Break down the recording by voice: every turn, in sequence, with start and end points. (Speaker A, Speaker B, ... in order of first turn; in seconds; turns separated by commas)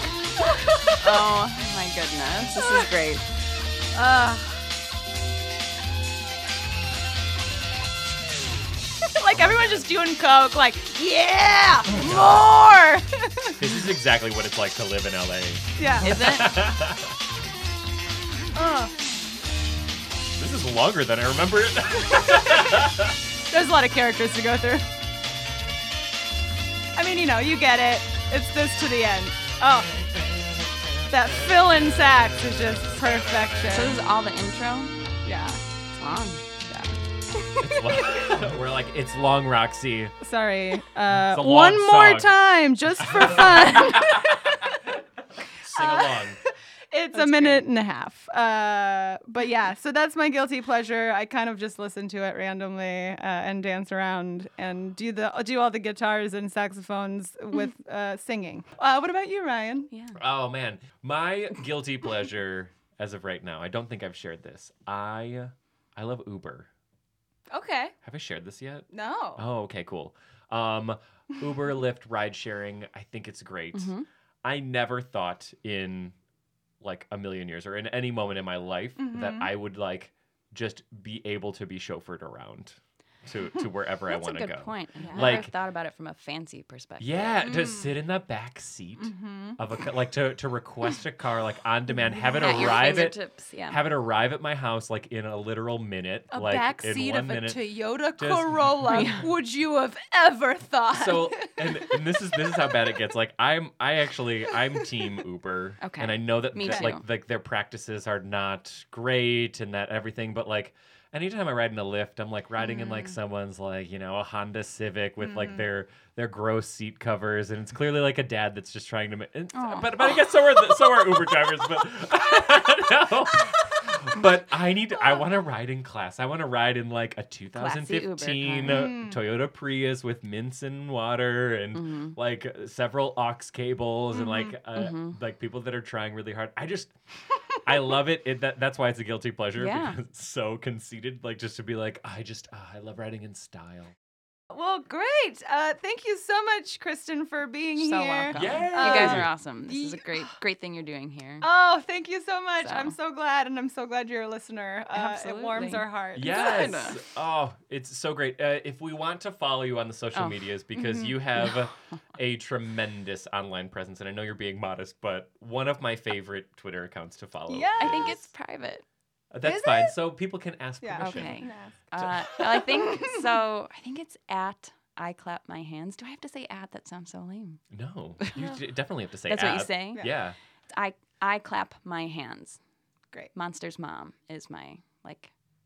Speaker A: 0.4-1.2, Speaker B: 1.0-3.2, Speaker A: 2.6-2.9, Speaker A: 3.9-4.6, Speaker A: 9.2-13.6, Speaker C: 9.3-9.9, Speaker C: 11.9-12.5, Speaker C: 13.6-17.2, Speaker A: 15.8-16.2, Speaker B: 16.0-16.6, Speaker A: 18.6-18.9, Speaker C: 20.4-23.2, Speaker A: 23.4-24.9, Speaker A: 27.0-29.9, Speaker C: 29.6-34.0, Speaker A: 31.1-34.0, Speaker B: 33.7-35.0, Speaker A: 35.2-35.6, Speaker B: 36.0-36.5, Speaker A: 36.7-38.1, Speaker C: 37.6-40.1, Speaker A: 40.2-44.3, Speaker C: 41.1-42.3, Speaker C: 43.0-45.0, Speaker C: 45.6-46.4, Speaker A: 45.8-46.4, Speaker A: 46.9-59.9, Speaker B: 47.1-47.6, Speaker B: 59.9-60.2, Speaker C: 60.1-66.7, Speaker A: 67.5-67.9, Speaker C: 68.0-76.1, Speaker A: 68.9-69.4, Speaker B: 73.7-74.1, Speaker C: 76.8-85.5, Speaker A: 79.0-79.5, Speaker B: 84.1-87.4, Speaker A: 85.0-85.4, Speaker C: 87.0-97.7, Speaker A: 87.4-88.0, Speaker A: 89.0-89.6, Speaker A: 92.3-92.8, Speaker B: 92.4-93.8, Speaker A: 96.3-102.8, Speaker C: 98.2-99.3, Speaker B: 98.9-99.3, Speaker C: 100.9-136.9, Speaker B: 105.8-107.0, Speaker B: 112.6-113.2, Speaker A: 115.2-115.6, Speaker B: 119.5-120.0, Speaker B: 127.6-128.9, Speaker A: 128.7-129.2, Speaker B: 131.7-132.2, Speaker B: 134.6-135.2, Speaker C: 137.6-143.9, Speaker B: 139.6-140.0, Speaker A: 144.5-150.4, Speaker B: 147.8-151.5, Speaker C: 148.3-149.3, Speaker A: 151.4-156.7, Speaker B: 152.6-152.9, Speaker B: 154.9-157.0, Speaker C: 156.2-168.3, Speaker B: 160.2-160.5, Speaker A: 167.5-168.2, Speaker B: 167.8-168.8, Speaker C: 169.3-172.5, Speaker A: 169.4-170.0, Speaker A: 170.8-171.8, Speaker B: 171.0-177.6, Speaker A: 172.7-173.2, Speaker C: 177.7-180.4, Speaker B: 179.3-180.1, Speaker B: 180.7-182.6, Speaker B: 183.3-185.3